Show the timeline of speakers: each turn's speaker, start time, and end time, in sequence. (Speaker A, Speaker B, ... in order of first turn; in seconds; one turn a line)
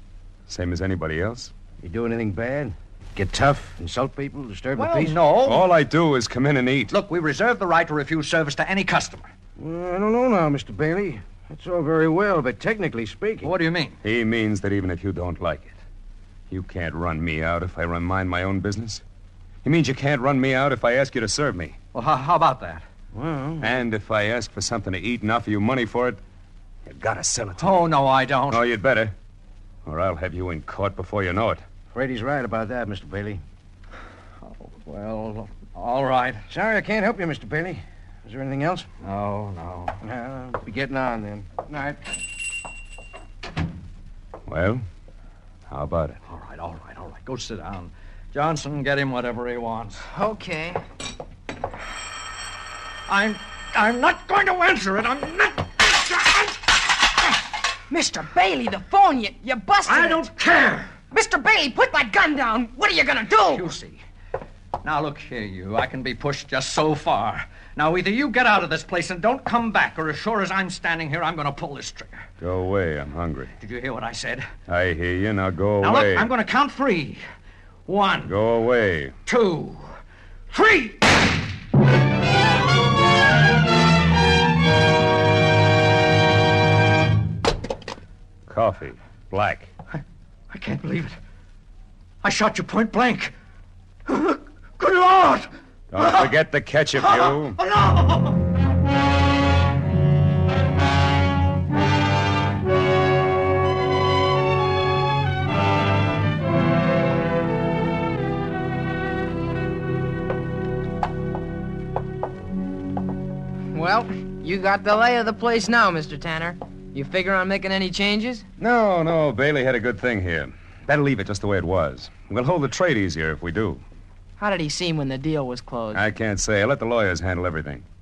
Speaker A: 0.5-1.5
Speaker B: 1.8-5.2
Speaker C: 4.7-5.7
Speaker A: 5.4-6.9
Speaker C: 6.9-9.3
Speaker B: 9.6-13.5
Speaker C: 13.4-14.0
Speaker A: 14.0-15.8
Speaker A: 16.5-19.0
Speaker A: 19.6-21.8
Speaker C: 21.9-22.8
Speaker B: 23.1-23.7
Speaker A: 23.6-26.2
Speaker A: 26.9-27.9
Speaker C: 27.6-28.6
Speaker A: 28.5-29.1
Speaker A: 29.8-31.6
Speaker B: 31.9-33.4
Speaker C: 34.4-36.4
Speaker B: 36.5-38.9
Speaker C: 39.0-40.0
Speaker B: 40.0-42.0
Speaker A: 44.5-44.8
Speaker A: 45.7-46.2
Speaker C: 46.2-50.0
Speaker D: 50.1-50.8
Speaker C: 53.1-56.6
Speaker D: 57.9-60.2
Speaker C: 59.9-60.9
Speaker D: 61.1-63.7
Speaker C: 63.4-64.0
Speaker C: 64.8-72.2
Speaker A: 72.4-73.5
Speaker C: 73.6-74.5
Speaker A: 74.7-76.3
Speaker C: 75.8-77.2
Speaker C: 77.9-78.3
Speaker A: 78.2-79.1
Speaker C: 79.2-79.9
Speaker C: 80.5-81.1
Speaker A: 88.5-89.7
Speaker C: 90.5-91.2
Speaker C: 92.2-93.3
Speaker C: 94.0-96.3
Speaker A: 95.9-97.6
Speaker C: 97.0-98.4
Speaker D: 113.7-118.5
Speaker A: 118.6-123.8
Speaker D: 124.4-126.0
Speaker A: 125.9-127.8